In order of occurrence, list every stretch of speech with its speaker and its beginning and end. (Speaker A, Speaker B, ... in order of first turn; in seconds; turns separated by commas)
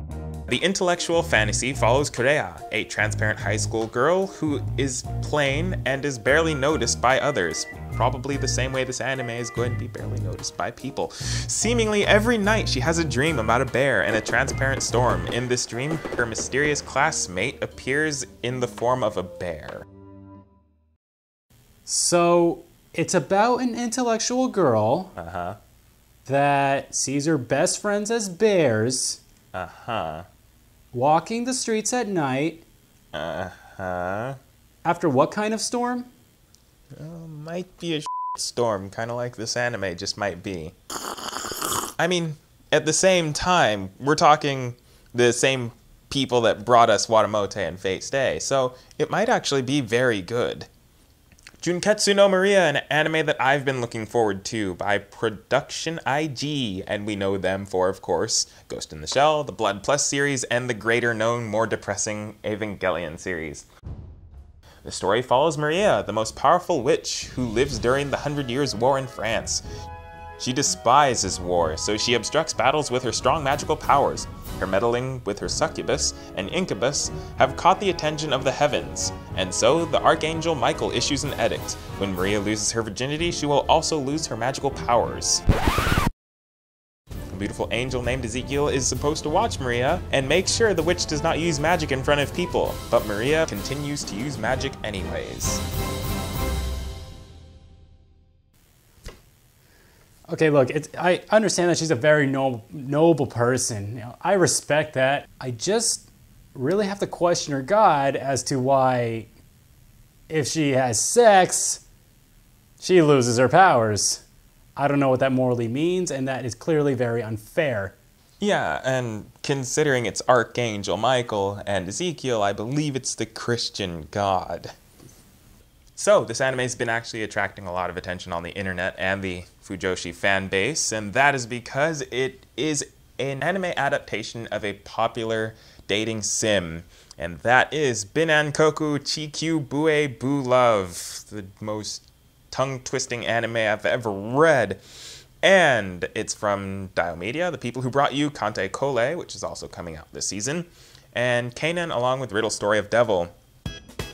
Speaker A: 0.5-19.9, Speaker B: 21.9-25.1, Speaker A: 25.2-25.6, Speaker B: 26.3-29.2, Speaker A: 29.5-30.3, Speaker B: 30.9-32.6, Speaker A: 33.1-34.4, Speaker B: 34.9-36.1, Speaker A: 37.0-40.8, Speaker A: 42.0-50.7, Speaker A: 51.6-63.7, Speaker A: 64.8-69.6, Speaker A: 70.4-85.4, Speaker A: 87.3-95.6, Speaker B: 100.3-109.3, Speaker B: 110.3-111.8, Speaker B: 112.8-114.2, Speaker B: 114.8-118.0, Speaker A: 118.4-124.7, Speaker A: 126.0-144.8, Speaker A: 145.4-153.3